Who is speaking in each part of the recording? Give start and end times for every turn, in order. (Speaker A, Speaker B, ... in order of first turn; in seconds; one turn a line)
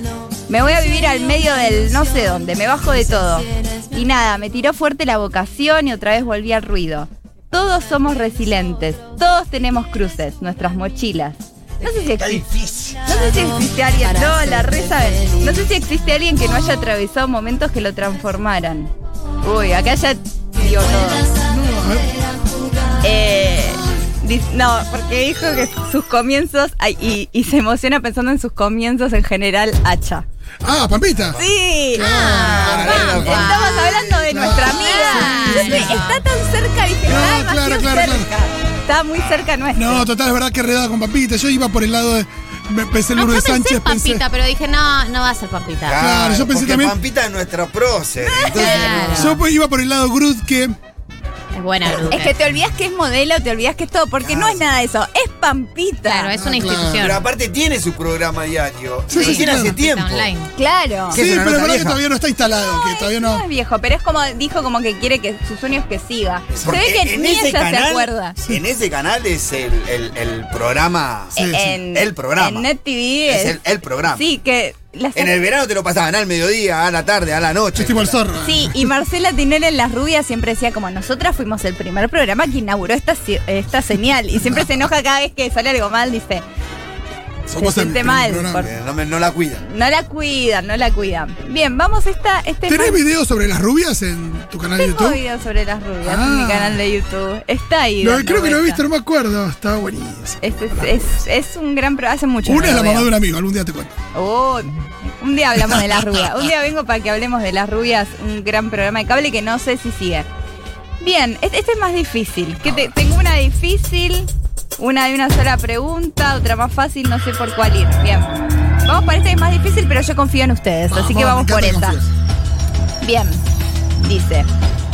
Speaker A: 0.5-12.5
Speaker B: 12.2-13.0
Speaker A: 13.0-21.3
Speaker C: 21.4-22.2
Speaker A: 23.0-30.2
Speaker C: 30.6-31.4
Speaker A: 31.4-40.1
Speaker C: 31.9-36.1
Speaker D: 31.9-33.9
Speaker B: 32.6-33.5
Speaker D: 34.6-36.2
Speaker C: 37.0-38.3
Speaker C: 39.8-44.2
Speaker D: 43.1-46.0
Speaker B: 45.9-49.4
Speaker C: 46.0-47.0
Speaker A: 48.2-49.2
Speaker D: 48.5-49.4
Speaker C: 49.1-50.8
Speaker D: 51.5-52.3
Speaker A: 51.9-56.3
Speaker B: 54.2-54.6
Speaker D: 56.0-57.3
Speaker C: 56.3-57.2
Speaker B: 57.0-60.3
Speaker C: 59.1-59.8
Speaker D: 59.1-60.5
Speaker A: 60.5-61.2
Speaker B: 61.1-62.0
Speaker C: 61.1-63.4
Speaker A: 62.5-68.4
Speaker B: 66.5-71.4
Speaker C: 71.3-71.7
Speaker A: 71.3-73.6
Speaker B: 71.9-72.7
Speaker B: 73.3-74.2
Speaker A: 74.1-75.5
Speaker B: 75.2-78.2
Speaker C: 77.8-78.8
Speaker A: 78.4-86.4
Speaker C: 84.4-84.7
Speaker C: 87.5-88.7
Speaker A: 87.6-88.7
Speaker B: 88.6-89.6
Speaker A: 89.6-93.0
Speaker C: 92.7-95.2
Speaker A: 94.8-98.8
Speaker C: 96.0-96.8
Speaker C: 98.0-101.2
Speaker A: 100.4-103.1
Speaker C: 102.4-103.9
Speaker A: 104.1-110.3
Speaker C: 105.6-106.3
Speaker A: 111.0-118.3
Speaker C: 112.7-112.9
Speaker A: 118.8-122.0
Speaker C: 120.9-122.1
Speaker A: 123.0-123.4
Speaker A: 124.0-124.5